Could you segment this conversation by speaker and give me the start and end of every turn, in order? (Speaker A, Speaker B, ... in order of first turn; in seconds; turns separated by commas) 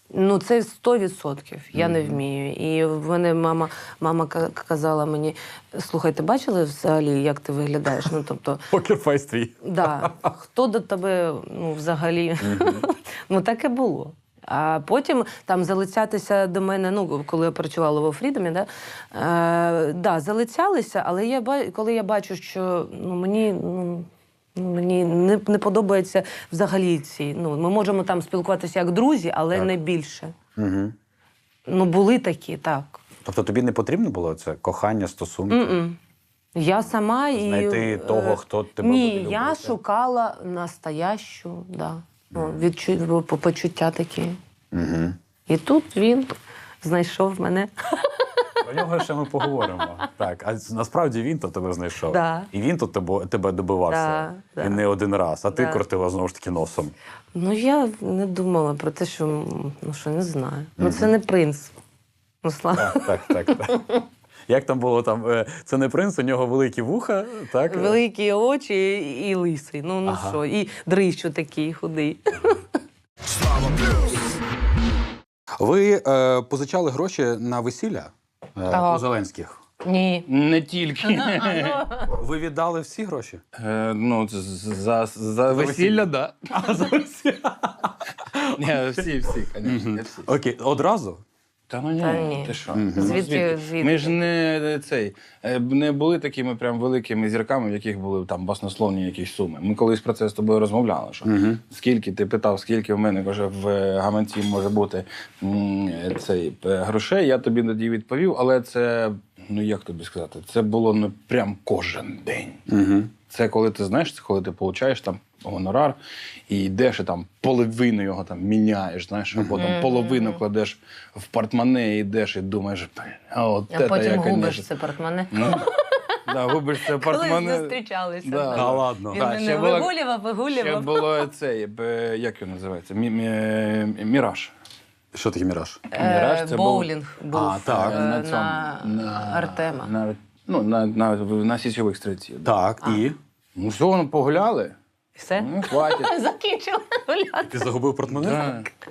Speaker A: 0.1-8.7, Speaker B: 1.7-2.2, Speaker B: 8.7-10.3, Speaker A: 9.6-30.3, Speaker B: 12.4-12.8, Speaker B: 30.6-31.0, Speaker A: 31.7-33.0, Speaker B: 33.2-35.8, Speaker A: 35.5-36.0, Speaker A: 36.6-44.4, Speaker B: 37.3-39.7, Speaker B: 42.3-42.6, Speaker B: 44.7-45.2, Speaker A: 45.5-48.6, Speaker B: 48.6-56.9, Speaker A: 49.6-49.9, Speaker A: 52.1-52.5, Speaker A: 53.9-54.8, Speaker A: 55.5-55.8, Speaker A: 57.4-61.8, Speaker B: 60.8-61.1, Speaker A: 62.4-64.0, Speaker B: 62.8-63.8, Speaker B: 64.5-68.0, Speaker A: 67.7-72.6, Speaker B: 70.0-70.4, Speaker B: 75.6-79.6, Speaker A: 78.7-79.1, Speaker A: 79.8-80.3, Speaker C: 80.3-81.9, Speaker A: 81.1-82.1, Speaker B: 82.1-83.4, Speaker C: 83.5-86.6, Speaker B: 85.5-88.6, Speaker C: 88.4-90.3, Speaker B: 89.6-91.2, Speaker C: 91.7-112.6, Speaker A: 92.0-94.2, Speaker B: 92.7-93.2, Speaker B: 101.2-101.6, Speaker B: 112.7-113.1, Speaker C: 113.3-116.0, Speaker C: 116.5-124.7, Speaker B: 119.3-119.7, Speaker A: 119.6-120.4, Speaker A: 123.7-131.3, Speaker C: 125.3-125.7, Speaker C: 126.3-129.9, Speaker B: 128.5-129.2, Speaker C: 130.5-134.5, Speaker B: 135.1-135.8, Speaker A: 135.9-139.9, Speaker C: 136.0-136.9, Speaker B: 137.3-138.0, Speaker C: 137.7-142.5, Speaker B: 142.4-143.2, Speaker C: 143.6-144.8, Speaker A: 145.2-147.7, Speaker C: 145.4-146.1, Speaker B: 147.5-148.5, Speaker C: 148.1-148.7